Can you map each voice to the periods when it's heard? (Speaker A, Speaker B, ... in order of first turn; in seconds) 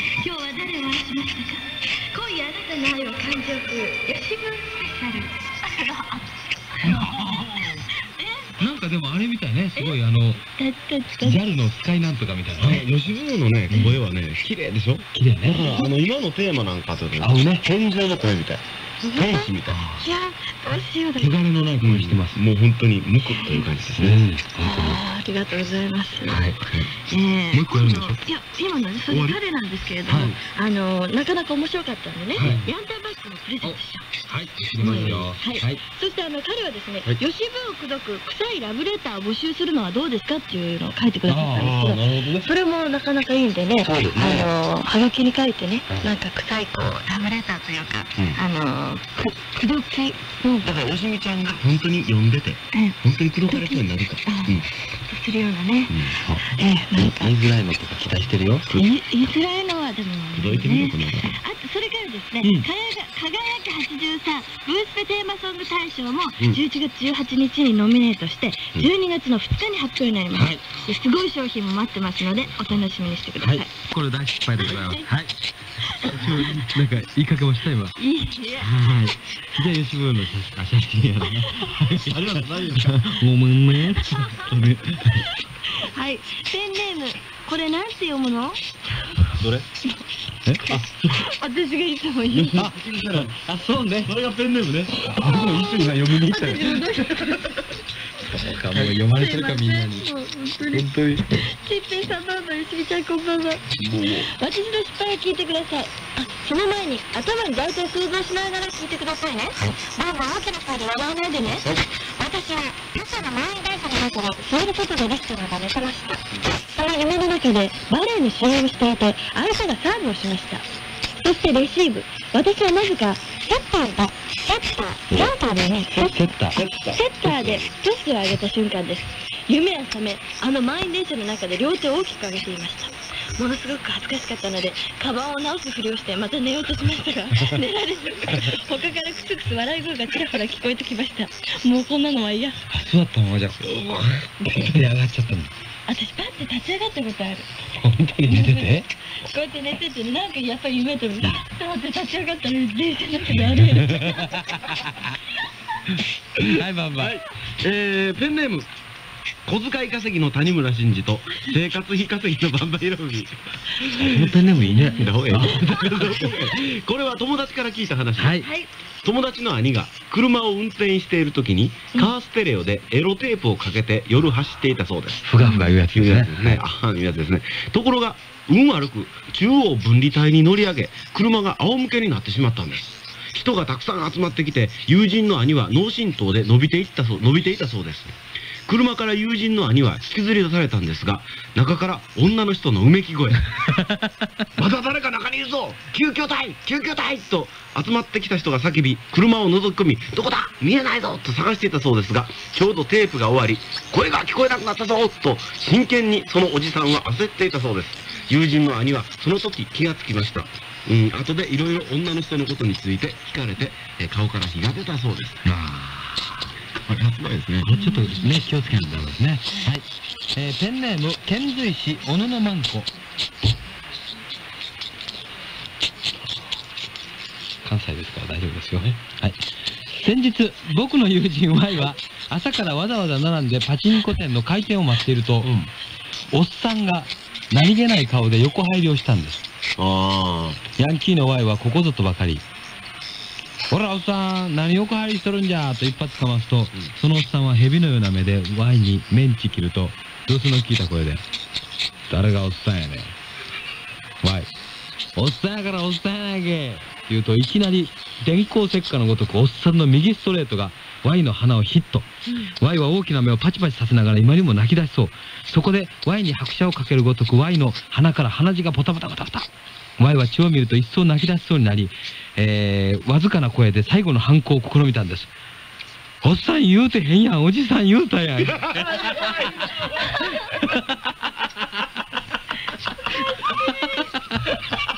Speaker A: 0.2-8.6, 10.6-11.4, 19.0-19.4, 20.0-21.4, 23.4-23.7, 24.6-26.4, 27.1-34.1, 34.8-50.7, 53.5-57.3, 58.7-73.7, 74.7-75.1, 78.0-78.8, 81.5-81.7, 84.0-84.4, 85.3-88.6, 91.1-92.6, 95.1-97.6, 98.8-120.6, 121.2-126.2, 126.9-142.6, 145.9-147.5, 148.3-154.8, 168.4-168.7, 175.4-175.7, 217.8-218.2
Speaker B: 6.8-7.8, 8.6-10.4, 11.2-12.8, 15.1-15.8, 17.2-17.6, 19.7-20.1, 21.2-22.4, 24.0-25.0, 26.3-26.6, 27.5-28.2, 30.1-30.4, 32.4-32.7, 33.6-35.8, 41.3-42.5, 43.8-44.5, 51.2-51.5, 57.2-58.7, 70.3-70.7, 73.4-75.3, 76.0-78.0, 78.6-85.3, 90.5-90.8, 92.5-94.2, 98.2-100.1, 100.7-101.4, 125.1-125.4, 126.0-126.7, 142.7-145.5, 147.7-148.9, 153.5-155.2, 156.4-157.2, 163.9-166.4, 168.2-168.5, 175.3-176.6, 193.6-194.4, 215.4-216.4, 217.6-222.9, 227.6-235.6, 236.3-239.4, 240.8-242.4, 243.7-251.2, 252.1-253.2, 254.2-254.5, 255.2-275.3, 276.2-281.8, 283.3-284.7
Speaker C: 7.2-7.8, 12.6-19.8, 21.8-24.2, 26.3-26.9, 29.1-29.4, 34.8-35.3, 41.6-42.0, 50.6-54.7, 55.9-56.3, 60.3-61.4, 62.4-62.7, 72.5-72.8, 76.1-76.6, 82.0-83.0, 89.3-89.7, 90.7-91.2, 92.3-93.4, 94.0-97.5, 103.8-104.3, 126.6-127.6, 143.6-144.3, 157.0-158.7, 159.4-168.4, 169.0-175.4, 175.9-193.7, 194.6-215.4, 216.8-217.7, 235.4-235.7, 239.8-240.6, 278.7-279.6